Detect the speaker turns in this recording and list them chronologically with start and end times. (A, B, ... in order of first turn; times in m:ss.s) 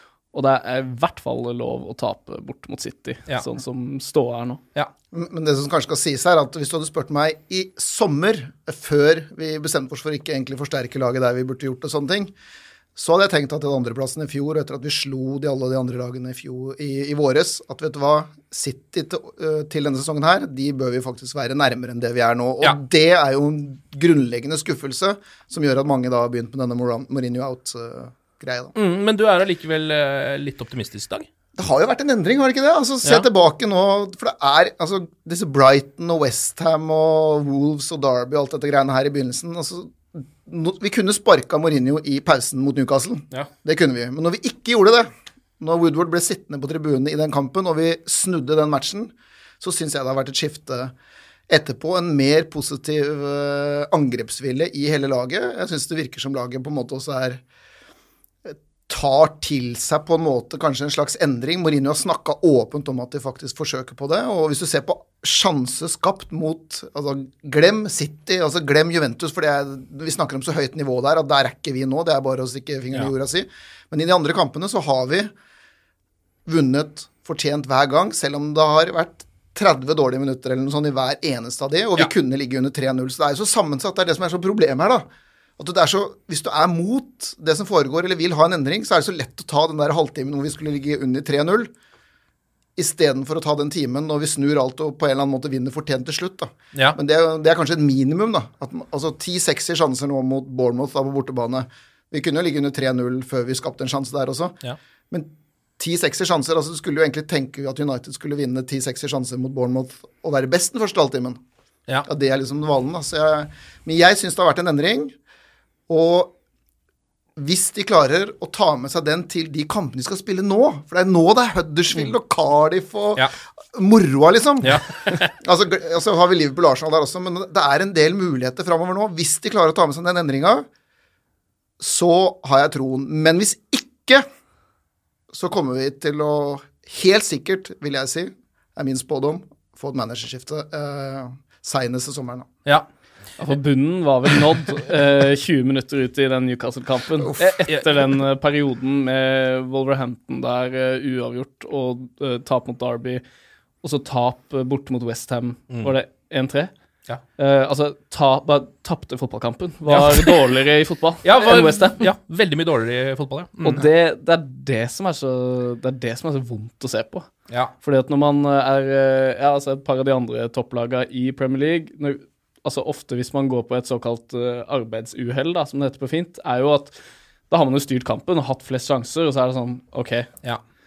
0:00.3-0:04.6 A
0:05.1-0:12.3 B
0:12.9-0:28.7 B
0:28.7-0:31.2 C
0:31.6-0:45.1 B
0:45.6-0:50.9 B
0:51.5-0:57.4 B
0:58.4-1:15.3 B
1:16.5-1:25.1 B
1:25.6-1:31.7 B
1:32.8-1:44.6 B
1:45.1-1:51.4 B
1:52.0-1:55.1 B
1:55.9-1:56.3 B
1:57.4-2:10.7 B
2:04.6-2:05.3 C
2:11.8-2:14.2 B
2:15.3-2:22.5 B
2:23.4-2:33.2 A
2:33.8-2:36.7 A
2:37.4-2:42.0 A
2:39.8-2:40.5 C
2:41.2-2:43.8 C
2:43.6-2:47.3 A
2:47.8-2:56.9 A
2:57.5-3:00.3 A